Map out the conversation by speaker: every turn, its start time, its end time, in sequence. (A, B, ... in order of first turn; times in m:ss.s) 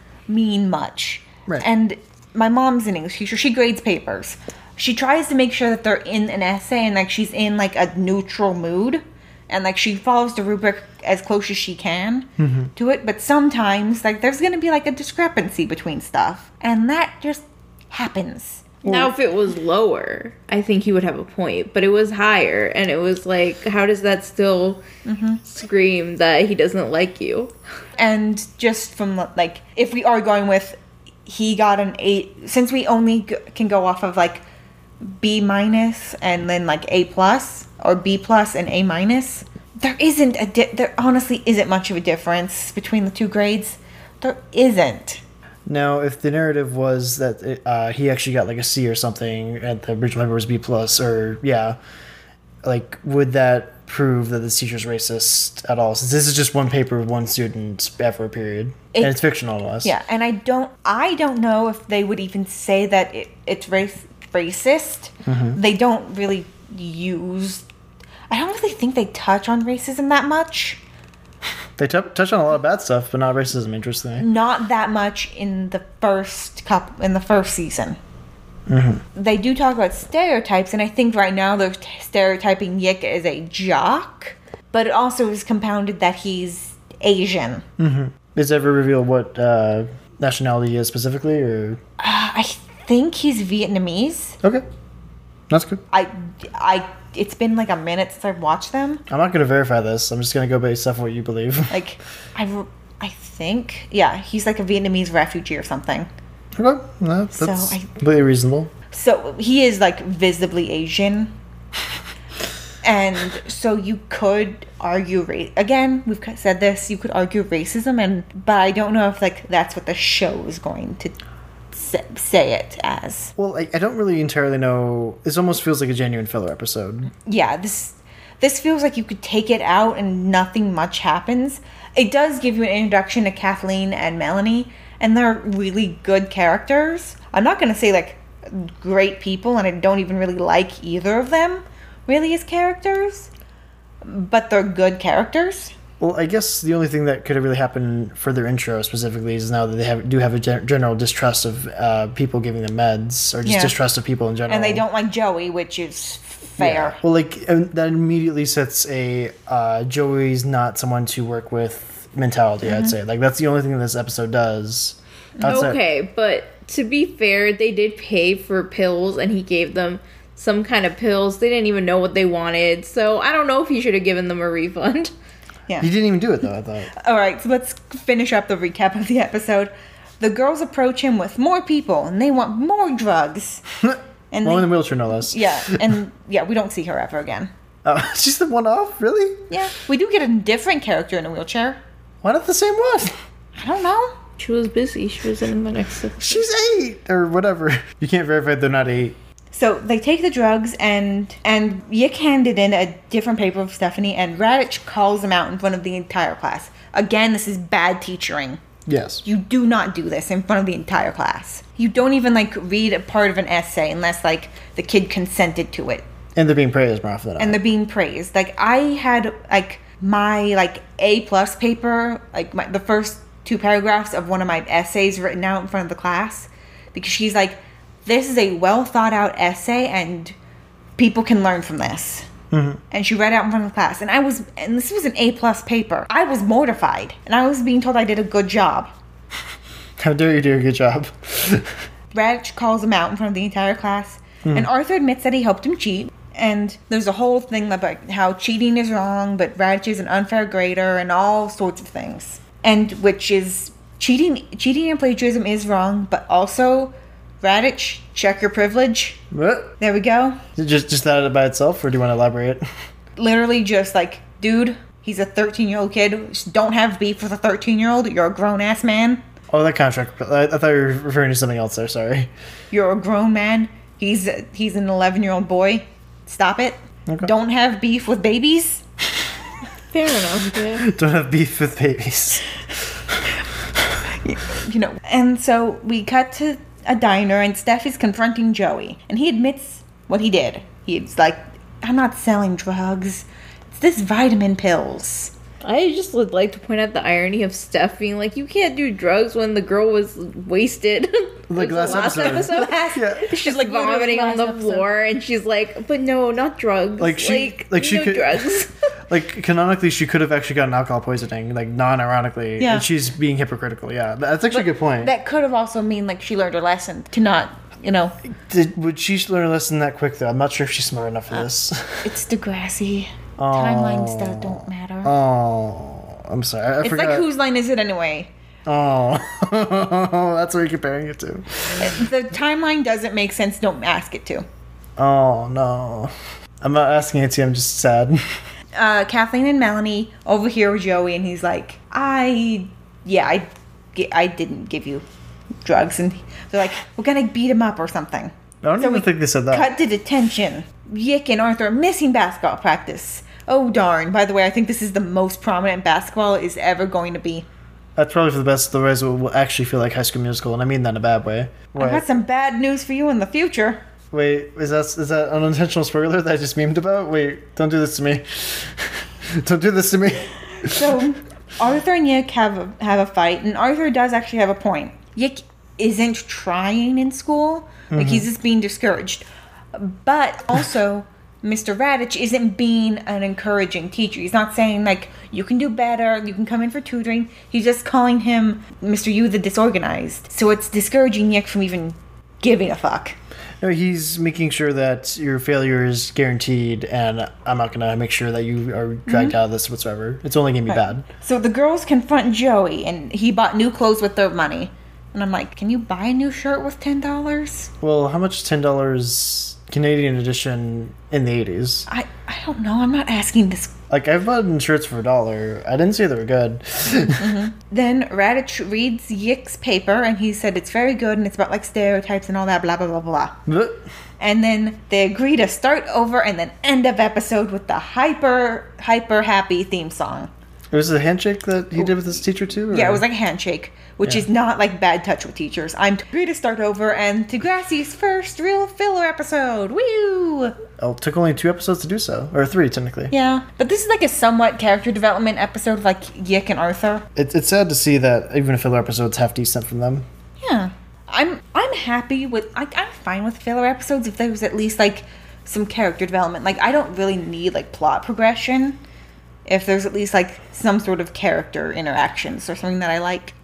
0:00.3-0:18.7 A
0:12.4-0:12.7 B
0:18.8-0:19.1 B
0:18.8-0:24.8 C
0:25.0-0:25.4 A
0:25.5-0:27.5 C
0:28.0-0:34.4 A
0:35.0-0:45.2 A
0:45.7-0:51.8 B
0:52.6-0:59.9 B
0:58.9-0:59.2 A
0:59.8-1:07.7 A
1:05.2-1:05.6 B
1:08.3-1:10.8 A
1:11.8-1:14.2 B
1:14.2-1:18.0 A
1:18.7-1:19.0 B
1:19.2-1:27.6 A
1:27.8-1:31.8 B
1:32.0-1:34.4 A
1:35.5-1:35.8 B
1:35.9-1:39.0 A
1:39.1-1:41.8 B
1:41.7-1:46.1 A
1:46.6-1:48.7 B
1:47.3-1:47.9 A
1:48.9-1:51.3 A
1:52.8-2:01.2 A
2:01.7-2:03.3 A
2:03.4-2:07.1 B
2:07.2-2:23.3 A
2:24.0-2:25.8 A
2:26.0-2:34.8 B
2:33.4-2:33.8 A
2:34.5-2:37.0 A
2:36.6-2:45.8 B
2:42.6-2:43.0 A
2:45.4-2:45.7 A
2:45.4-2:55.1 C
2:55.8-2:56.9 B
2:56.9-3:03.6 A
3:03.8-3:05.8 B
3:04.3-3:07.5 A
3:07.8-3:09.5 B
3:09.5-3:11.8 A
3:12.2-3:13.2 B
3:13.6-3:14.2 A
3:14.4-3:16.4 C
3:16.2-3:19.2 B
3:19.5-3:28.6 A
3:28.9-3:29.2 B
3:29.2-3:36.0 A
3:36.4-3:37.6 B
3:37.4-3:50.4 A
3:51.0-3:52.3 A
3:52.5-3:52.8 B
3:52.9-3:58.9 A
4:00.0-4:01.7 B
4:02.1-4:19.2 A
4:19.3-4:19.7 B
4:19.8-4:20.4 A
4:20.6-4:22.6 B
4:23.2-4:29.2 A
4:29.5-4:32.3 B
4:32.7-4:38.8 A
4:39.9-4:40.9 C
4:40.7-4:42.5 B
4:44.2-4:55.3 A
4:55.6-5:08.7 C
5:01.5-5:03.4 B
5:01.8-5:04.9 A
5:07.0-5:08.5 B
5:09.1-5:15.1 B
5:12.6-5:12.9 A
5:14.5-5:18.2 A
5:18.4-5:22.1 B
5:22.0-5:25.1 A
5:23.4-5:27.2 B
5:26.8-5:28.3 A
5:28.7-5:31.9 B
5:31.8-5:34.4 A
5:35.0-5:38.2 B
5:38.8-5:45.0 A
5:45.6-5:57.5 A
5:48.6-5:49.7 B
5:58.0-6:02.1 B
6:01.8-6:03.8 A
6:04.1-6:11.0 B
6:10.6-6:33.2 A
6:17.9-6:18.3 B
6:33.6-6:41.0 B
6:39.1-6:39.4 A
6:40.7-6:47.7 A
6:47.8-6:51.9 B
6:51.9-6:53.7 A
6:53.9-6:57.4 B
6:57.2-7:03.4 A
7:03.5-7:03.8 B
7:04.2-7:10.3 A
7:10.7-7:13.0 B
7:12.7-7:20.6 A
7:20.8-7:23.1 B
7:23.1-7:27.1 A
7:27.2-7:30.1 B
7:30.4-7:38.8 A
7:39.5-7:43.4 A